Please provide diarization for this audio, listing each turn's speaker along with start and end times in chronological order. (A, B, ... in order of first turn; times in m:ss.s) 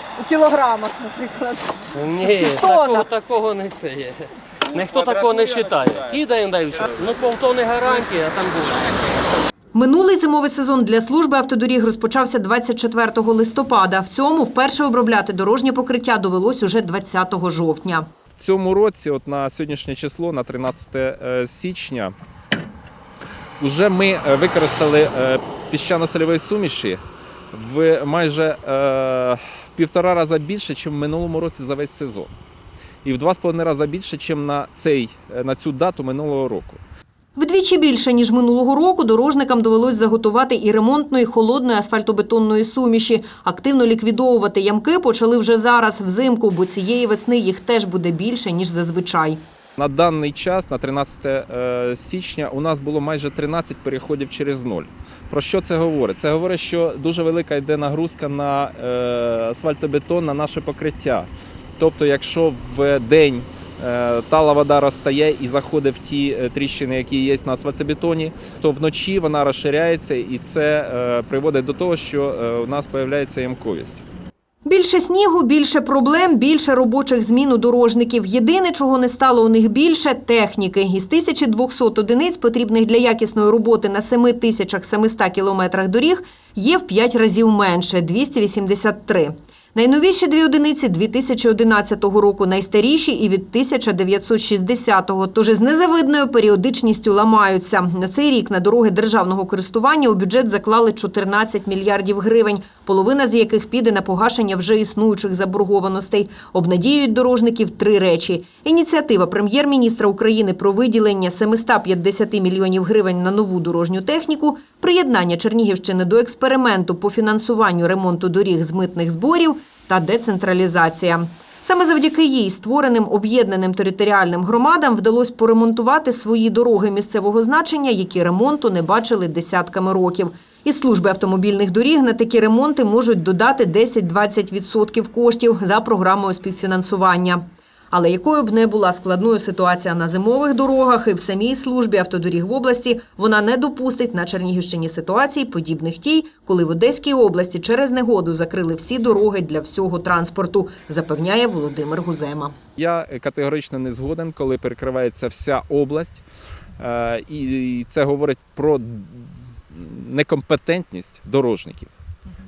0:00.2-0:03.1 A
0:01.9-0:09.1 B
0:09.7-0:18.1 A
0:18.3-0:22.1 C
0:23.6-0:27.0 C
0:27.5-0:32.3 C
0:33.0-0:36.8 C
0:37.4-0:49.4 A
0:49.8-1:14.0 C
1:14.6-2:32.5 A
2:32.8-2:36.2 C
2:36.8-2:41.9 C